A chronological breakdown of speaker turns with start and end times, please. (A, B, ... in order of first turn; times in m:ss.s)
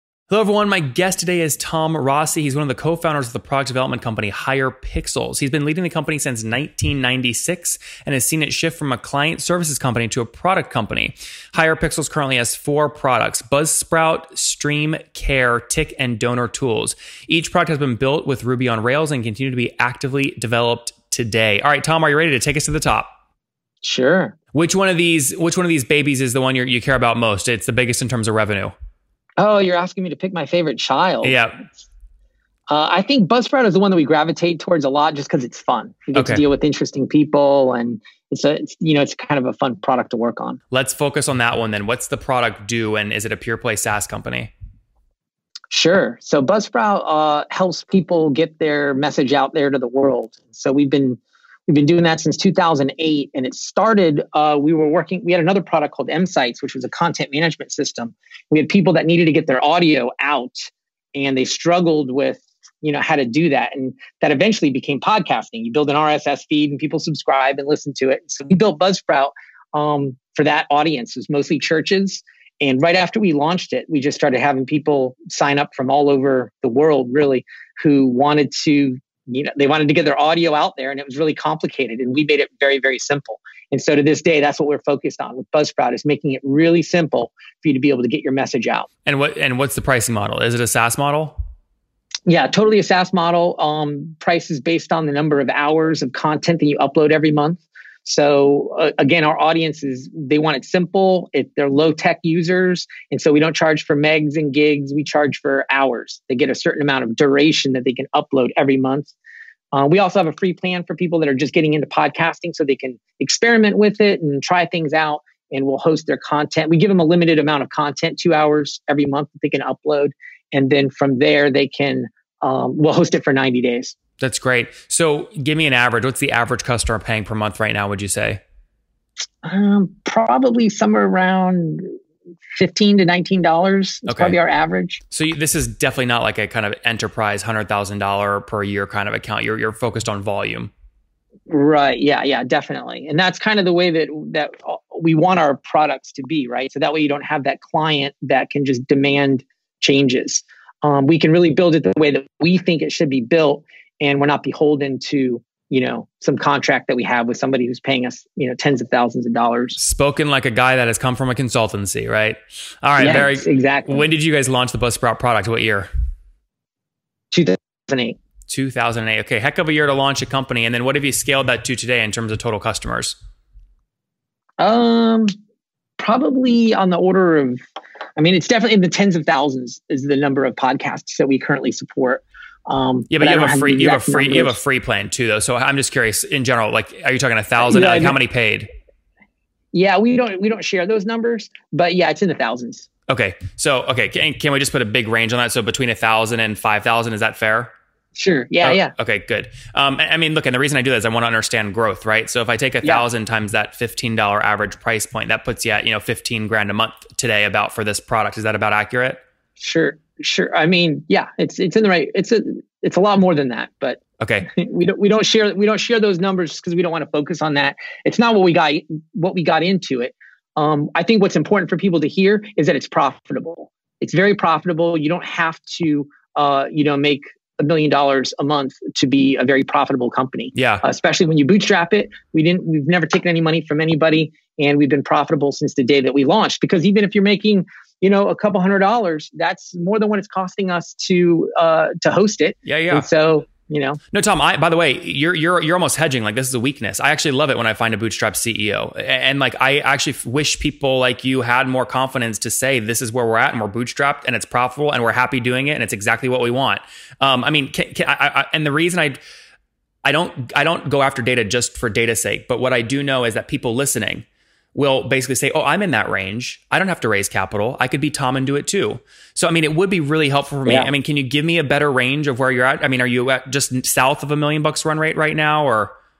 0:00.3-0:23.1 A
0:23.8-0:24.4 B
0:24.5-0:28.7 A
0:29.4-0:31.4 B
0:31.2-0:31.6 A
0:32.7-0:40.6 B
0:36.1-0:36.4 A
0:40.7-0:44.5 A
0:45.7-1:28.9 B
1:29.0-1:31.4 A
1:32.2-1:49.1 B
1:49.7-2:03.9 B
2:04.2-2:08.4 A
2:09.4-2:11.8 B
2:12.5-2:15.0 B
2:14.1-2:14.4 A
2:15.1-2:20.7 A
2:21.5-2:39.8 B
2:39.8-2:45.9 A
2:43.0-2:44.1 B
2:47.3-2:48.2 B
2:48.5-2:53.2 A
2:54.6-2:55.3 B
2:56.0-2:57.6 B
2:58.2-3:04.6 B
3:03.1-3:08.7 A
3:07.6-3:08.2 B
3:09.7-3:12.9 B
3:13.1-3:17.7 A
3:18.1-3:18.9 B
3:18.6-3:29.2 A
3:29.6-4:04.0 B
3:34.2-3:34.5 A
3:50.5-3:50.8 A
4:02.6-4:03.1 A
4:04.1-4:19.2 A
4:20.0-4:35.9 A